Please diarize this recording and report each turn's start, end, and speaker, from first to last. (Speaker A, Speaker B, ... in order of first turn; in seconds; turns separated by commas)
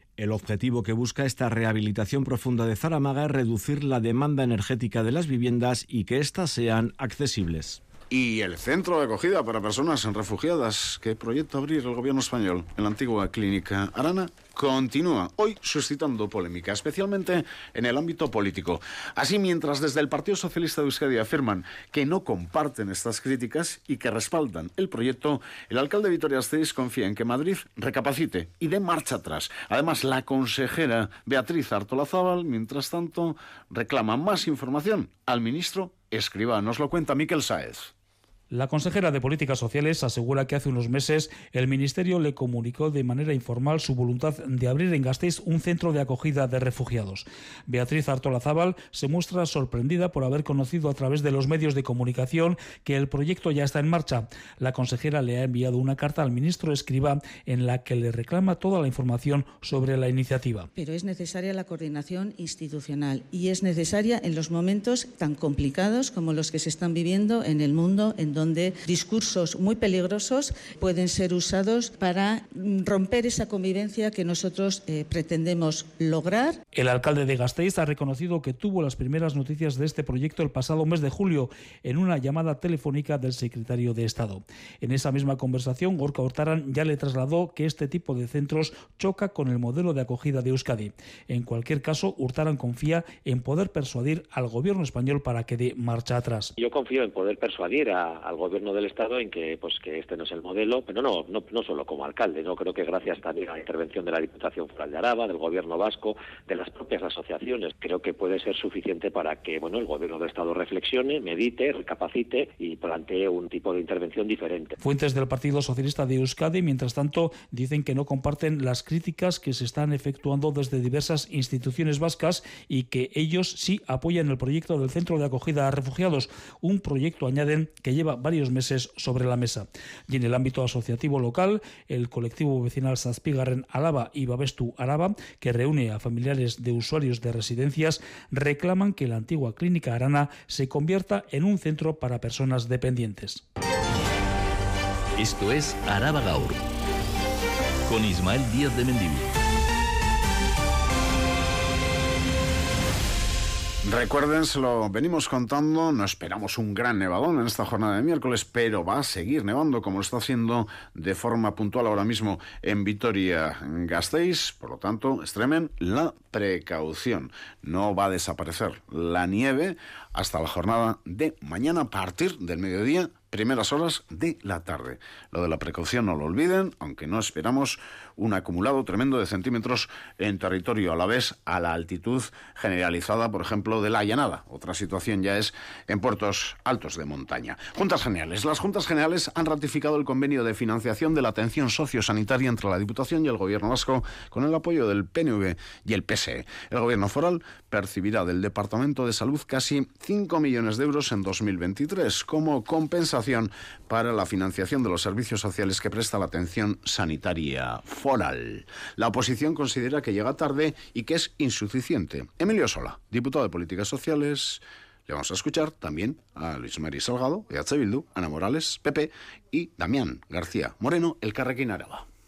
Speaker A: 0.2-7.8, Speaker B: 8.1-37.9, Speaker C: 38.5-60.7, Speaker D: 60.8-76.6, Speaker C: 76.8-96.5, Speaker E: 96.6-114.8, Speaker C: 114.8-143.4, Speaker F: 145.2-146.7, Speaker F: 147.9-149.3, Speaker B: 153.8-222.0